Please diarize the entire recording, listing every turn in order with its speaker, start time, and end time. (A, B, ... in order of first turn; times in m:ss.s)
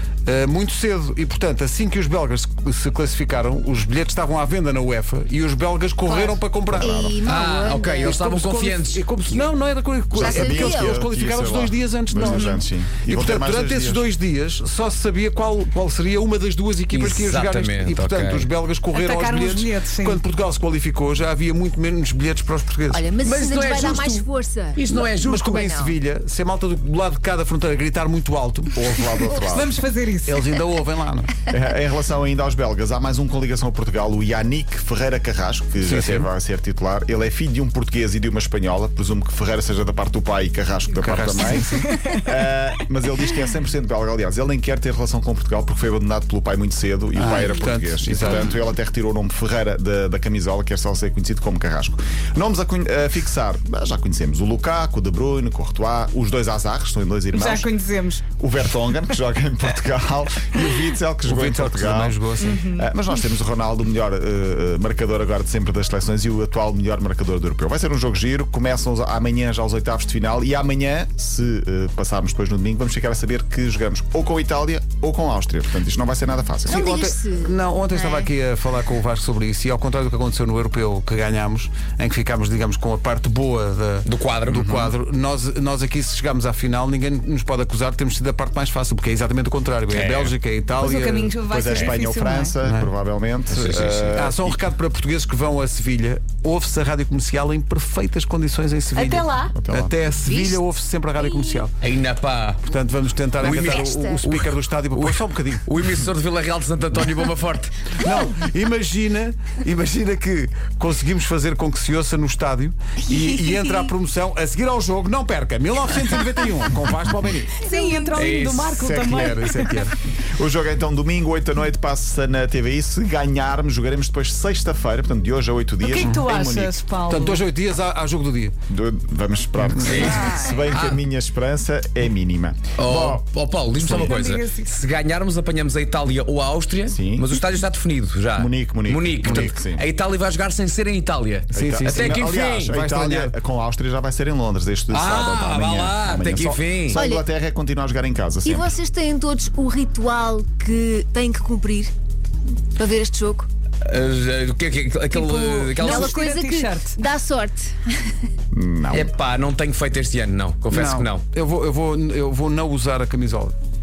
0:00.3-0:07.1 A
0:06.1-0:08.2 B
0:06.7-0:07.2 C
0:07.2-0:09.3 D
0:08.0-0:23.0 A
0:10.2-0:11.0 B
0:10.2-0:14.1 C
0:12.2-0:12.6 E
0:16.9-0:18.5 D
0:18.9-0:20.2 E
0:22.9-0:24.8 B
0:23.2-0:25.7 D
0:24.9-0:28.8 A
0:25.4-0:26.0 B
0:28.7-0:29.8 C
0:29.4-0:30.4 E
0:30.2-0:31.3 A
0:31.5-0:57.7 C
0:35.8-0:36.3 A
0:41.0-0:41.8 A
0:41.8-0:42.2 E
0:47.2-0:48.5 A
0:57.3-0:58.2 E
0:58.3-1:16.8 C
1:01.2-1:02.6 A
1:02.4-1:02.9 E
1:16.7-1:18.3 B
1:16.7-1:31.4 A
1:24.1-1:24.9 D
1:29.9-1:30.4 D
1:30.8-1:32.6 E
1:31.5-1:34.6 C
1:32.6-1:32.9 A
1:33.5-1:34.2 D
1:34.1-1:41.7 A
1:39.0-1:39.6 E
1:39.5-1:39.9 C
1:41.8-1:42.6 D
1:42.7-1:45.6 A
1:43.4-1:47.7 D
1:43.4-1:44.2 B
1:48.0-1:57.6 A
1:57.6-1:59.8 E
1:57.7-1:58.3 B
1:58.2-1:58.9 D
1:58.8-1:59.9 A
2:00.3-2:06.8 C
2:05.8-2:07.4 E
2:06.0-2:06.3 A
2:07.1-2:08.6 A
2:08.7-2:14.2 C
2:09.6-2:10.1 A
2:09.8-2:11.0 D
2:10.1-2:10.6 E
2:12.8-2:22.8 D
2:13.8-2:14.8 E
2:16.8-2:17.3 C
2:18.4-2:19.8 C
2:19.2-2:19.5 A
2:21.5-2:23.4 A
2:21.5-2:28.7 C
2:24.9-2:27.0 D
2:26.9-2:27.3 B
2:28.4-2:31.9 B
2:32.8-2:33.5 B
2:33.8-2:36.1 D
2:35.1-2:37.0 E
2:35.8-2:38.1 B
2:38.5-2:39.1 C
2:38.9-2:41.2 D
2:40.7-2:43.6 A